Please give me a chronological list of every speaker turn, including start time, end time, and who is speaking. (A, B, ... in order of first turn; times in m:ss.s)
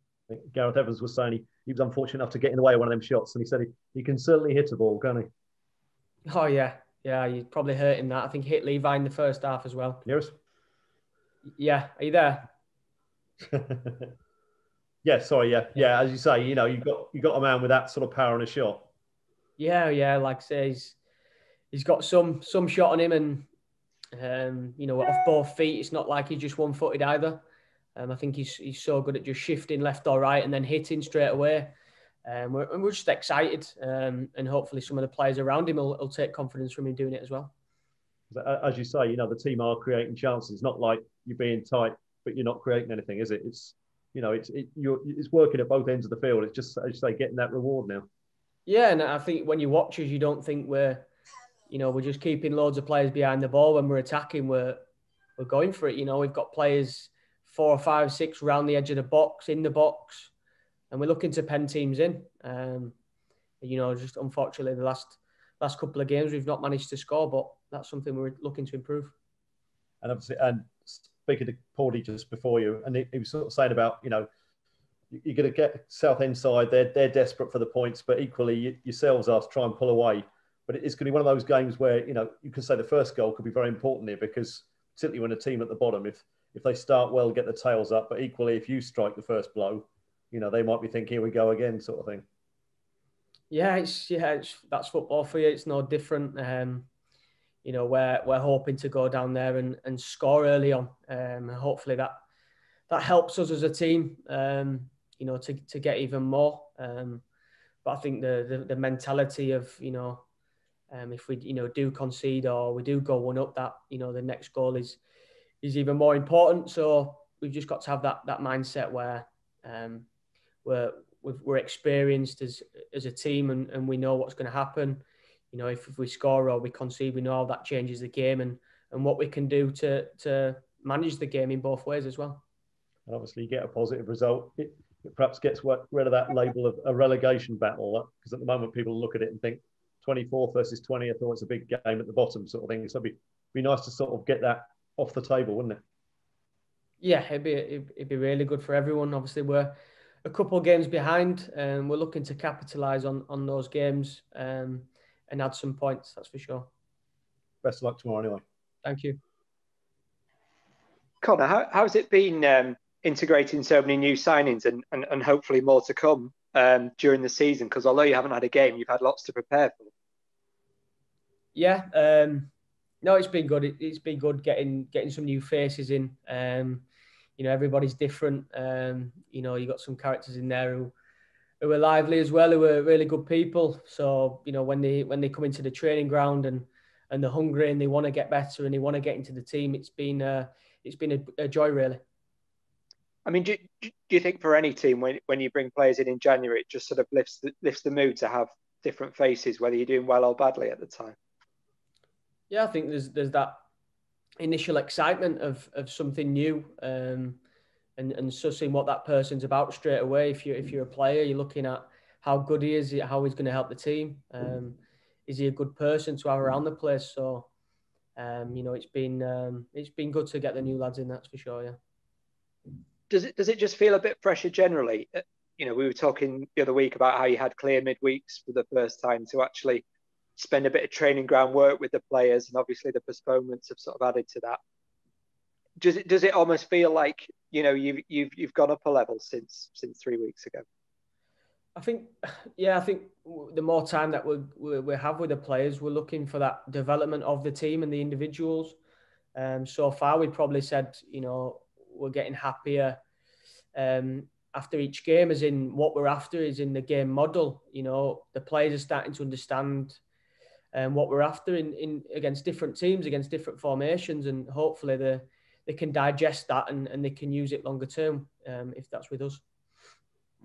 0:00.3-0:05.3 A
0:06.3-0:10.0 B
0:10.0-0:10.4 A
0:11.6-0:12.5 B
0:13.4-0:14.1 A
0:15.0-0:18.9 A
0:19.6-0:21.0 B
0:21.7-0:23.5 B
0:24.1-0:27.4 B
0:28.0-0:37.5 B
0:38.3-0:48.1 A
0:48.7-0:51.1 B
0:51.7-0:54.8 B
0:55.4-1:00.3 B
1:00.9-1:03.0 B
1:03.6-1:09.1 B
1:10.0-1:14.3 A
1:15.1-1:32.3 A
1:33.5-1:36.9 B
1:37.6-1:42.2 B
1:42.9-1:47.2 B
1:47.8-1:50.2 B
1:50.9-1:55.0 B
1:55.6-2:00.1 B
2:00.6-2:12.4 B
2:13.1-2:25.8 A
2:27.0-2:36.7 B
2:37.6-2:38.4 A
2:38.8-2:39.2 B
2:41.2-2:49.9 C
2:51.6-2:52.5 B
2:53.0-2:56.8 B
2:57.4-3:00.9 B
3:01.6-3:12.0 B
3:13.3-3:21.2 C
3:22.5-3:23.6 B
3:24.4-3:27.4 B
3:28.0-3:37.5 B
3:38.2-3:41.8 B
3:43.1-3:49.8 C
3:50.4-3:54.6 C
3:55.8-4:00.6 C
4:01.8-4:08.8 B
4:09.4-4:13.0 B
4:13.8-4:20.0 B
4:20.7-4:29.4 B